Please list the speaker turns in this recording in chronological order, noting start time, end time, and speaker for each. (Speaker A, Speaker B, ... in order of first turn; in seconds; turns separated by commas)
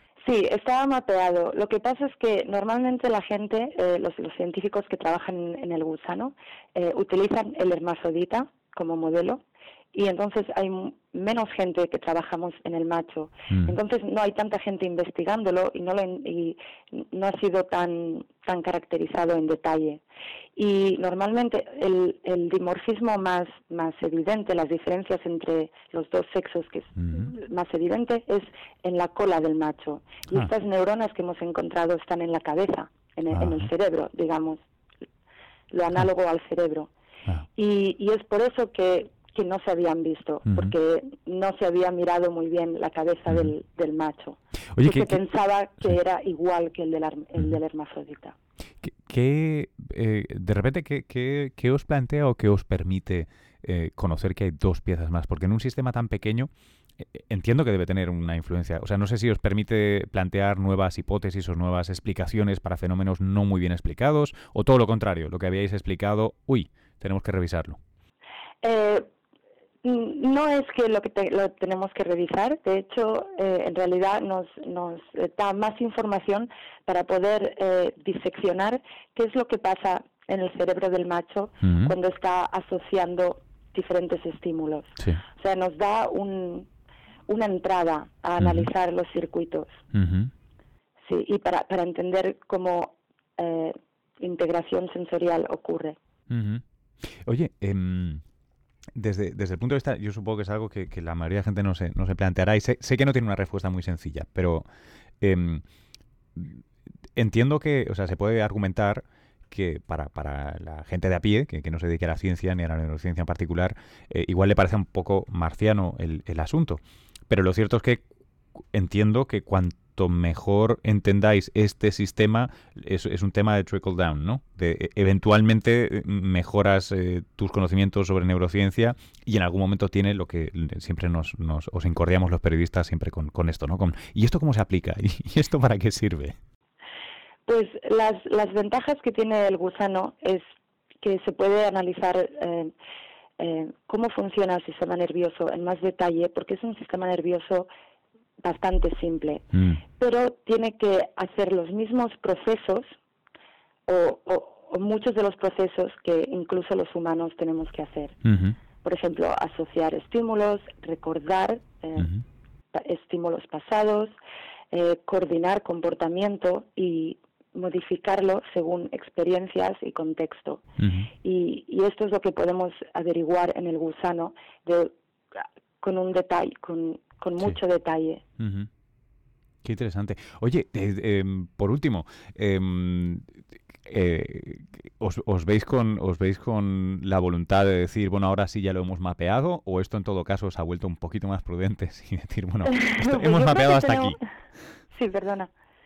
Speaker A: 0.3-20.0, Speaker B: 13.5-13.8, Speaker A: 20.6-34.6, Speaker B: 27.0-27.3, Speaker B: 33.3-33.7, Speaker A: 35.7-36.9, Speaker A: 37.6-48.4, Speaker B: 40.5-40.8, Speaker B: 44.7-45.2, Speaker B: 48.8-67.8, Speaker A: 68.6-69.1, Speaker A: 69.8-86.7, Speaker B: 81.6-81.9, Speaker A: 87.3-89.8, Speaker B: 88.4-88.7, Speaker B: 89.9-90.3, Speaker A: 91.1-96.0, Speaker B: 96.3-98.2, Speaker B: 98.9-104.7, Speaker B: 105.2-105.6, Speaker B: 106.4-106.6, Speaker B: 107.2-118.0, Speaker B: 118.7-136.4, Speaker A: 137.5-140.4, Speaker A: 141.0-142.7, Speaker A: 143.4-147.7, Speaker A: 148.4-149.5, Speaker B: 149.5-149.8, Speaker A: 150.0-152.9, Speaker A: 153.9-158.2, Speaker B: 158.2-158.6, Speaker A: 158.8-162.1, Speaker B: 162.0-162.2, Speaker A: 162.7-164.1, Speaker A: 164.7-170.6, Speaker B: 170.8-171.1, Speaker A: 171.2-178.2, Speaker B: 178.4-178.7, Speaker B: 179.6-194.7, Speaker A: 192.7-194.2, Speaker A: 194.9-195.5